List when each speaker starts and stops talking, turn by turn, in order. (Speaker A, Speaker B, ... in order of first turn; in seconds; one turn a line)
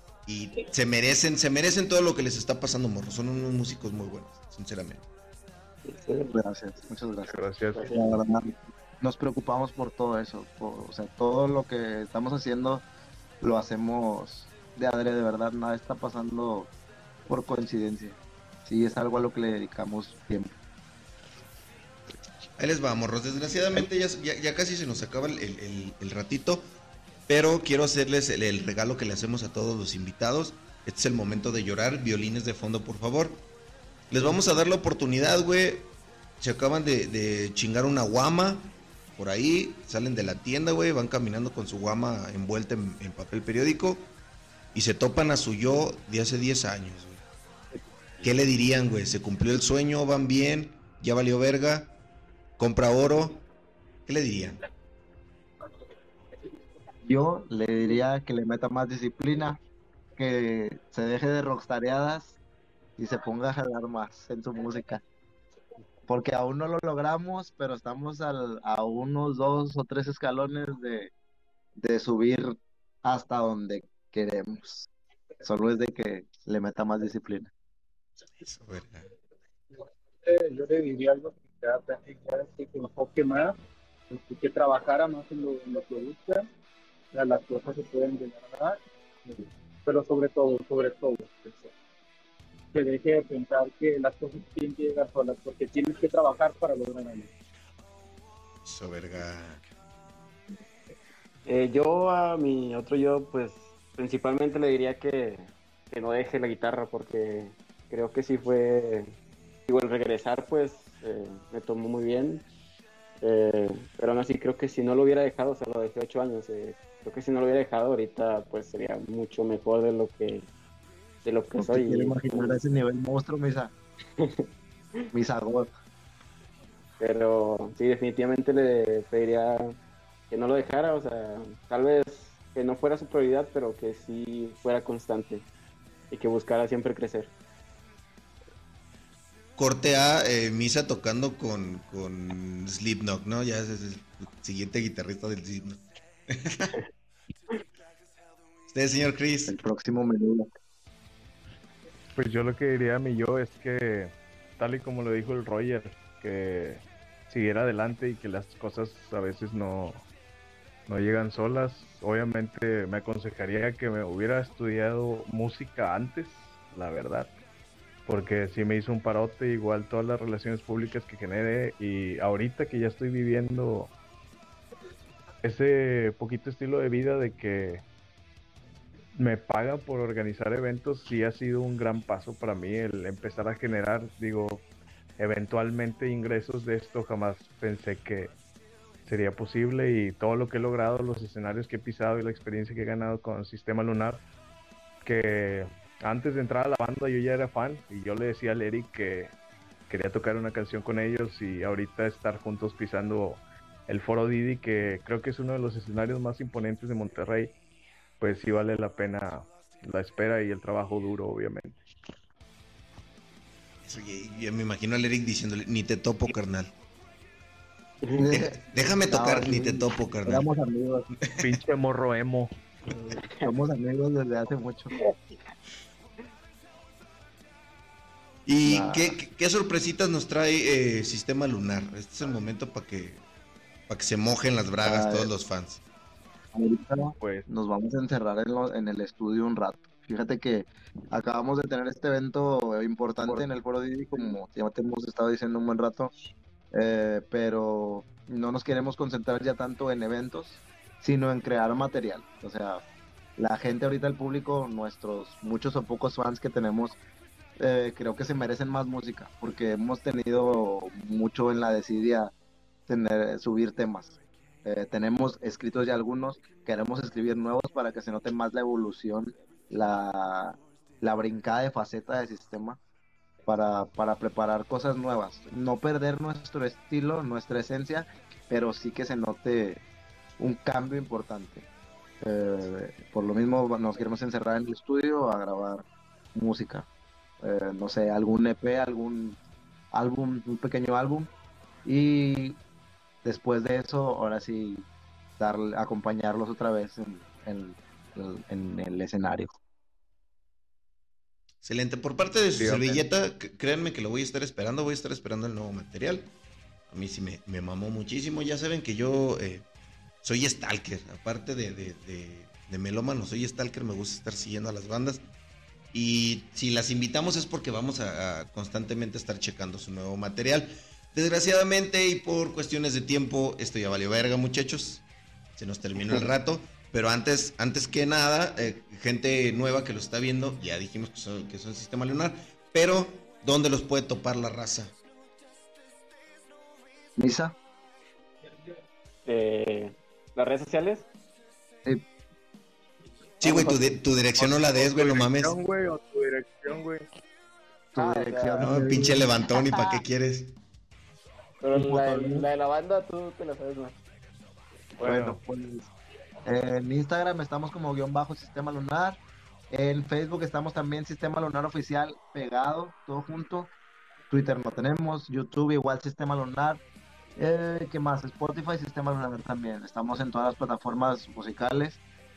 Speaker A: 0.3-5.1
Speaker B: 5.8-6.3
Speaker C: 6.3-7.4
Speaker D: 7.3-8.0
Speaker B: 7.7-8.1
Speaker C: 7.9-12.8
Speaker C: 13.4-16.7
Speaker C: 17.3-20.6
Speaker A: 22.6-26.6
Speaker A: 27.3-33.5
Speaker A: 34.1-44.1
Speaker A: 44.7-47.2
Speaker A: 48.2-52.0
Speaker A: 52.6-53.5
Speaker A: 54.1-54.6
Speaker C: 57.0-59.6
Speaker C: 60.2-62.4
Speaker C: 63.0-65.0
Speaker C: 66.1-71.1
Speaker C: 71.8-74.9
Speaker C: 75.4-77.5
Speaker A: 78.4-79.1
Speaker E: 79.7-83.6
Speaker E: 84.1-86.5
Speaker E: 87.1-91.7
Speaker E: 92.7-97.3
Speaker A: 98.6-99.6
Speaker B: 101.5-109.2
Speaker B: 109.7-112.5
Speaker B: 113.2-120.5
Speaker B: 121.2-122.6
Speaker C: 121.5-123.7
Speaker B: 124.2-124.5
Speaker C: 125.1-125.7
Speaker B: 127.0-129.8
Speaker B: 130.3-135.5
Speaker B: 136.1-137.3
Speaker A: 139.6-146.7
Speaker A: 148.7-149.6
Speaker C: 149.5-150.5
Speaker D: 152.2-160.1
Speaker D: 160.9-167.3
Speaker D: 168.1-173.9
Speaker D: 175.4-177.8
Speaker D: 179.2-184.7
Speaker D: 185.2-188.3
Speaker D: 189.1-194.2
Speaker D: 195.0-199.3
Speaker D: 199.9-207.5
Speaker D: 208.2-211.8
Speaker A: 213.8-216.7
Speaker B: 218.0-218.3
Speaker C: 218.1-221.1
Speaker A: 218.3-220.5
Speaker A: 221.3-221.6
Speaker D: 221.4-222.5
Speaker C: 223.3-224.9
Speaker B: 224.9-225.5
Speaker A: 228.5-233.2
Speaker C: 228.7-229.2
Speaker A: 233.9-235.8
Speaker C: 234.8-235.3
Speaker C: 236.5-246.1
Speaker D: 237.2-237.5
Speaker C: 246.7-252.8
Speaker C: 253.4-257.0
Speaker C: 257.6-262.3
Speaker C: 262.9-272.8
Speaker C: 273.5-279.8
Speaker C: 280.4-281.6
Speaker C: 282.2-286.9
Speaker C: 287.4-289.4
Speaker C: 289.9-291.3
Speaker C: 291.9-292.6
Speaker C: 293.2-294.9
Speaker C: 295.4-299.6
Speaker A: 301.6-306.3
Speaker C: 302.6-302.9
Speaker A: 306.9-309.7
Speaker A: 310.2-315.2
Speaker A: 315.9-325.0
Speaker A: 325.6-334.9
Speaker C: 337.2-337.6
Speaker B: 339.2-341.1
Speaker A: 343.4-345.6
Speaker B: 343.4-344.0
Speaker D: 344.4-347.1
Speaker B: 347.9-348.8
Speaker C: 347.9-349.3
Speaker A: 348.6-350.6
Speaker B: 349.5-349.8
Speaker B: 351.6-354.0
Speaker C: 351.7-352.5
Speaker C: 355.0-355.9
Speaker D: 355.0-355.4
Speaker C: 356.4-359.2
Speaker C: 359.7-363.7
Speaker C: 364.3-366.8
Speaker C: 367.4-372.0